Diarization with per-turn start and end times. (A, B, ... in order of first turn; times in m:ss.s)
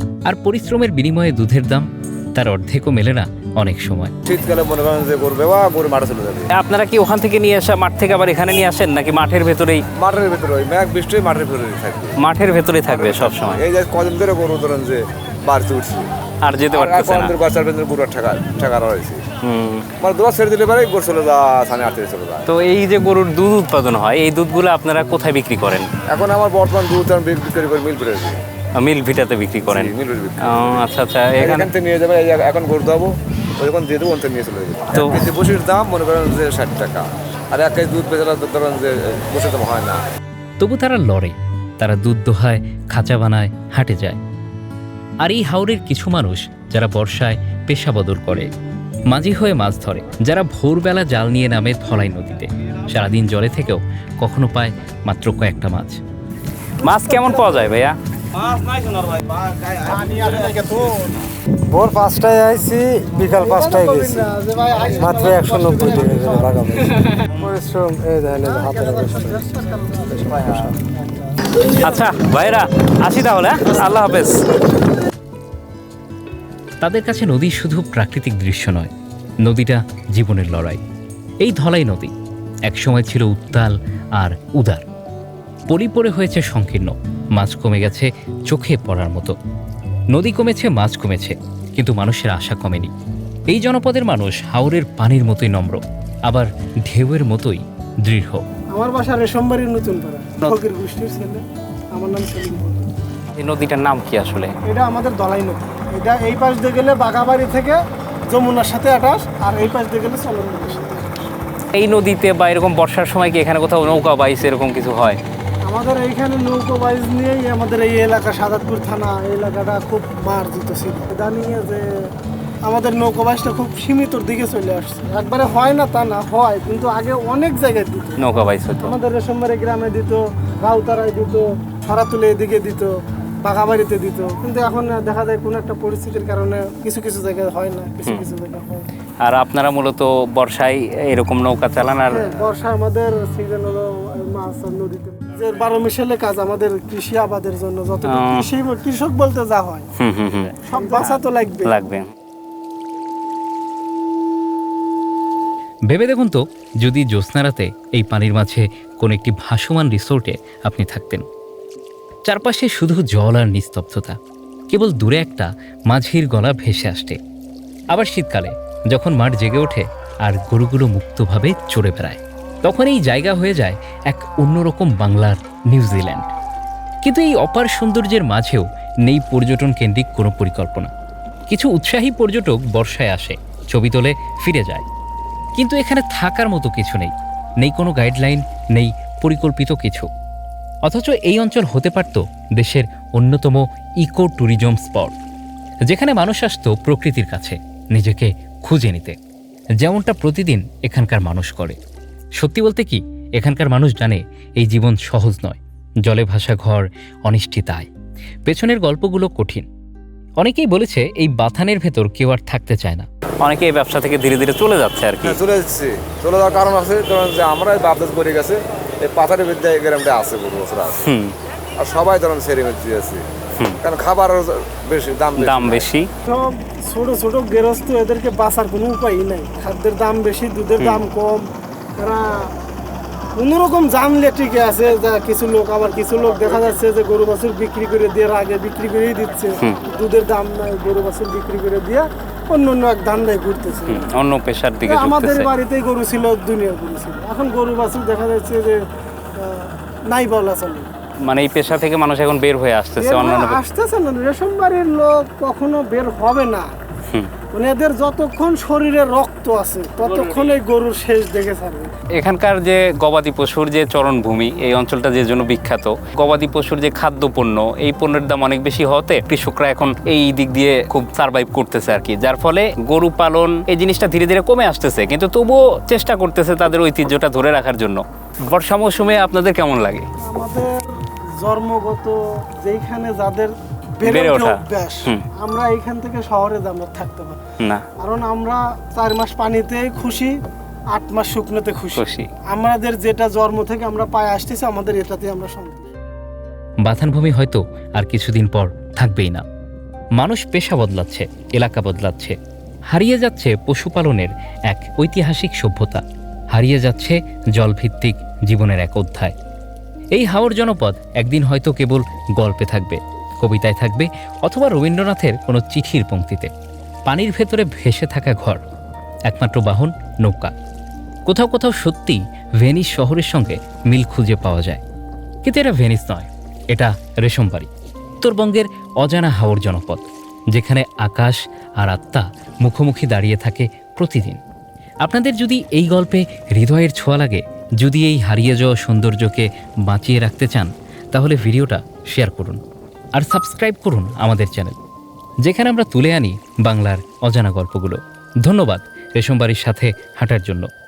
0:00.3-0:04.1 A
0:04.2-0:06.5 B
0:06.5-0:09.8 C
0:10.0-0:12.2 B
0:12.2-0:13.6 C
0:12.9-0:16.1 B
0:16.4-0:17.3 C
0:16.7-0:19.2 B
0:19.4-0:19.9 C
0:20.0-0:22.5 B
0:22.5-0:25.9 C
0:26.1-0:28.4 B
0:28.8-0:31.7 C
0:29.6-0:30.8 B
0:31.4-0:40.0 B
0:34.9-0:35.2 C
0:40.6-0:44.2 A
0:45.2-0:48.5 A
0:49.1-0:56.0 A
0:56.8-0:57.8 D
0:56.8-0:58.0 C
0:58.5-0:59.7 B
0:59.8-1:01.2 D
1:01.7-1:04.3 E
1:03.3-1:07.4 D
1:04.9-1:09.4 E
1:08.4-1:10.3 D
1:10.1-1:10.8 E
1:11.8-1:14.4 C
1:16.8-1:18.9 A
1:19.4-1:20.8 A
1:21.4-1:22.1 A
1:22.7-1:24.8 A
1:25.7-1:29.3 A
1:30.1-1:32.9 A
1:33.5-1:38.4 A
1:38.8-1:41.4 D
1:41.9-1:42.9 D
1:43.4-1:44.6 C
1:44.6-1:51.3 D
1:51.7-1:55.2 C
1:55.6-2:01.8 D
2:02.6-2:08.3 D
2:08.2-2:09.0 C
2:08.8-2:12.9 D
2:13.4-2:18.9 D
2:19.2-2:22.4 C
2:22.1-2:29.9 D
2:28.0-2:28.5 C
2:30.0-2:32.1 C
2:30.6-2:31.8 D
2:35.9-2:41.2 A
2:42.2-2:44.2 A
2:44.7-2:47.2 A
2:47.9-2:56.3 A
2:57.0-3:00.9 A
3:01.5-3:04.8 A
3:05.6-3:10.1 A
3:10.9-3:15.1 A
3:15.9-3:19.2 A
3:19.8-3:21.8 A
3:22.4-3:27.9 A
3:28.5-3:29.7 A
3:30.4-3:33.1 A
3:33.4-3:35.4 C
3:35.2-3:41.1 B
3:41.0-3:41.3 C
3:41.8-3:43.2 B
3:43.8-3:45.9 B
3:45.4-3:46.1 C
3:46.3-3:51.5 D
3:52.0-3:52.5 D
3:53.4-4:04.1 D
4:03.9-4:05.5 C
4:04.8-4:08.8 D
4:09.4-4:10.9 D
4:11.2-4:13.6 C
4:13.0-4:16.7 D
4:17.5-4:21.9 D
4:20.1-4:20.6 C
4:22.2-4:40.1 C
4:40.2-4:47.4 D
4:44.0-4:45.2 C
4:47.6-4:47.8 C
4:48.0-4:50.4 D
4:50.9-4:55.9 D
4:52.0-4:52.3 C
4:56.8-4:59.4 A
5:00.2-5:02.4 A
5:02.9-5:06.0 A
5:06.5-5:09.3 A
5:10.1-5:16.5 A
5:17.1-5:18.6 A
5:19.3-5:20.5 A
5:21.3-5:24.8 A
5:25.4-5:27.7 A
5:28.2-5:34.4 A
5:35.0-5:42.6 A
5:43.2-5:44.8 A
5:45.4-5:50.7 A